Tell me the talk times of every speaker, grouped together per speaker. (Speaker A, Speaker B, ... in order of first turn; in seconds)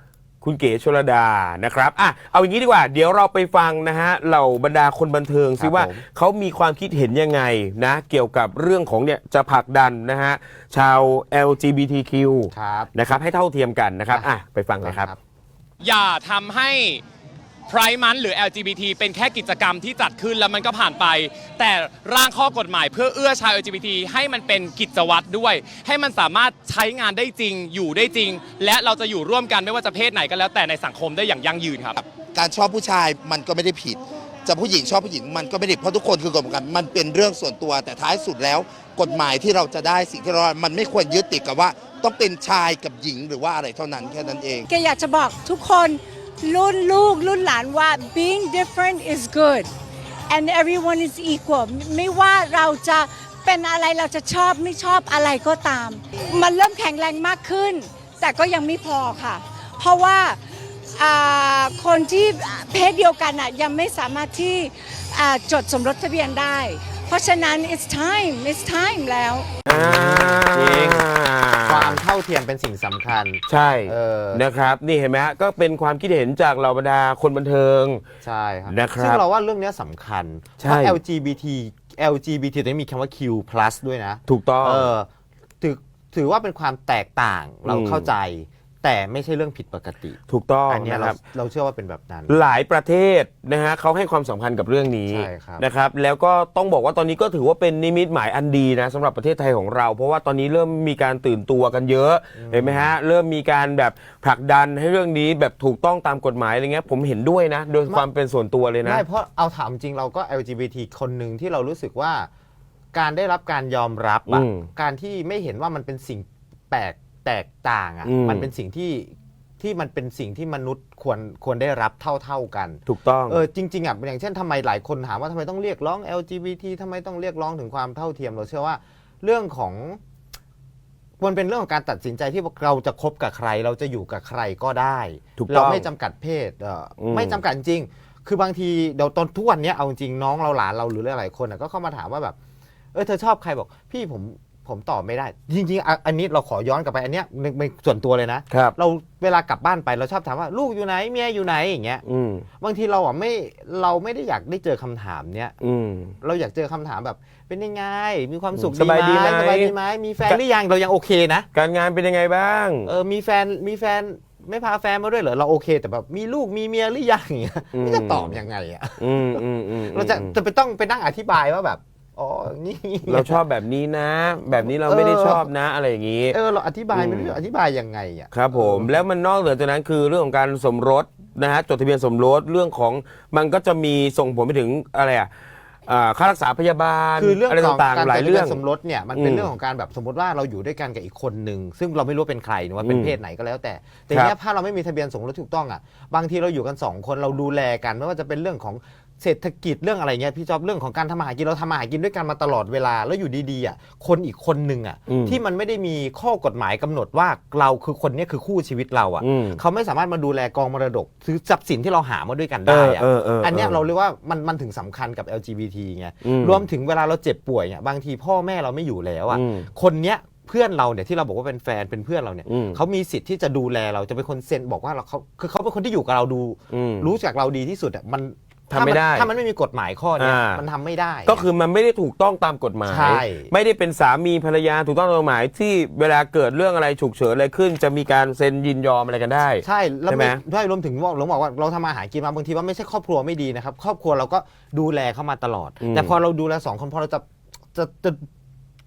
Speaker A: 0.4-15.1, 69.7-72.0, 73.5-78.0, 78.7-79.2, 80.6-81.0, 84.3-84.9, 87.7-88.1, 90.3-91.2, 92.3-109.0, 114.3-114.7, 118.0-118.5, 122.9-123.4, 135.4-135.9, 137.0-137.4, 148.5-148.8, 152.1-152.5, 155.6-156.1, 158.6-159.7, 161.5-162.9, 167.7-168.4, 169.0-170.3, 173.1-176.4, 176.9-177.4, 178.3-185.3, 185.9-188.6, 189.2-189.5, 192.8-193.2, 205.1-205.4, 209.2-209.6, 212.7-213.8, 216.2-216.6, 219.3-219.7, 222.5-222.8, 226.7-227.1, 228.7-229.3, 230.2-230.6, 231.3-240.4, 245.8-246.1
Speaker B: 5.6-6.0, 12.5-12.9, 14.8-15.2, 69.7-71.1, 71.7-74.4, 78.2-85.1, 85.6-90.2, 90.7-92.4, 95.1-95.6, 102.3-102.9, 108.8-112.3, 112.9-130.0, 131.2-142.3, 142.9-152.0, 152.6-155.6, 156.2-161.5, 162.8-173.4, 174.6-175.5, 176.3-179.0, 187.2-231.5, 232.9-233.5, 239.6-248.2
Speaker C: 15.8-17.0, 17.7-32.1
Speaker D: 32.3-44.7
Speaker E: 44.7-49.7, 50.3-60.4, 61.0-69.5